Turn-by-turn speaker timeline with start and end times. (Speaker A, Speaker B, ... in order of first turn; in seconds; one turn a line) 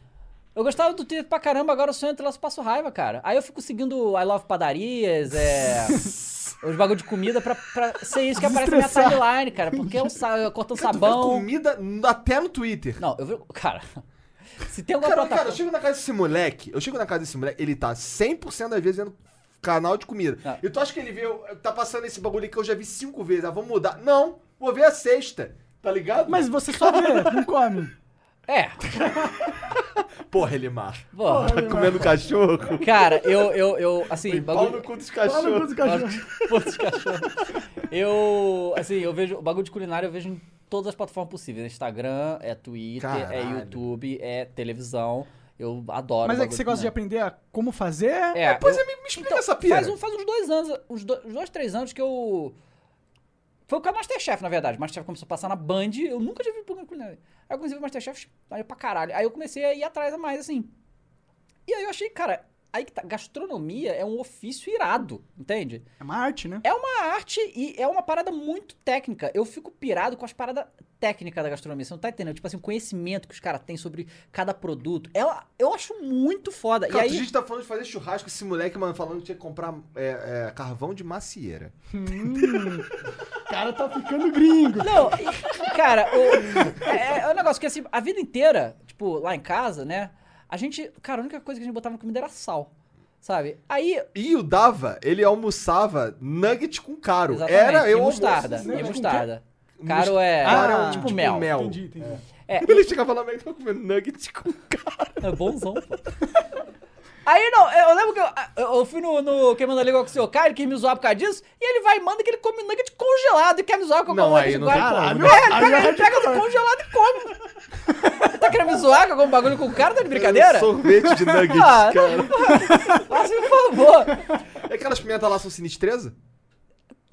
Speaker A: 0.5-11.5
Speaker B: 8.3-10.1
Speaker C: 10.7-13.0
Speaker A: 13.0-14.0
Speaker A: 14.6-15.6
Speaker C: 15.0-27.4
Speaker B: 26.3-27.9
Speaker A: 28.5-28.9
Speaker B: 29.0-29.4
Speaker C: 29.6-36.7
Speaker A: 31.1-31.7
Speaker B: 31.2-32.3
Speaker A: 32.8-34.9
Speaker B: 35.2-36.2
Speaker A: 35.8-46.9
Speaker C: 43.0-43.8
Speaker B: 46.2-48.4
Speaker A: 48.3-52.5
Speaker C: 48.4-50.0
Speaker A: 53.7-60.7
Speaker A: 61.7-65.8
Speaker B: 66.0-66.6
Speaker A: 66.6-77.2
Speaker C: 76.9-82.7
Speaker B: 81.9-82.9
Speaker B: 83.5-85.7
Speaker A: 84.8-94.1
Speaker B: 86.4-86.8
Speaker C: 94.1-99.2
Speaker A: 97.3-101.5
Speaker B: 98.3-99.3
Speaker C: 99.8-105.3
Speaker B: 100.4-102.2
Speaker A: 102.5-102.9
Speaker A: 105.2-106.0
Speaker A: 107.2-117.4
Speaker C: 114.1-115.6
Speaker B: 114.7-116.6
Speaker A: 118.1-124.4
Speaker C: 120.0-123.1
Speaker C: 124.5-126.1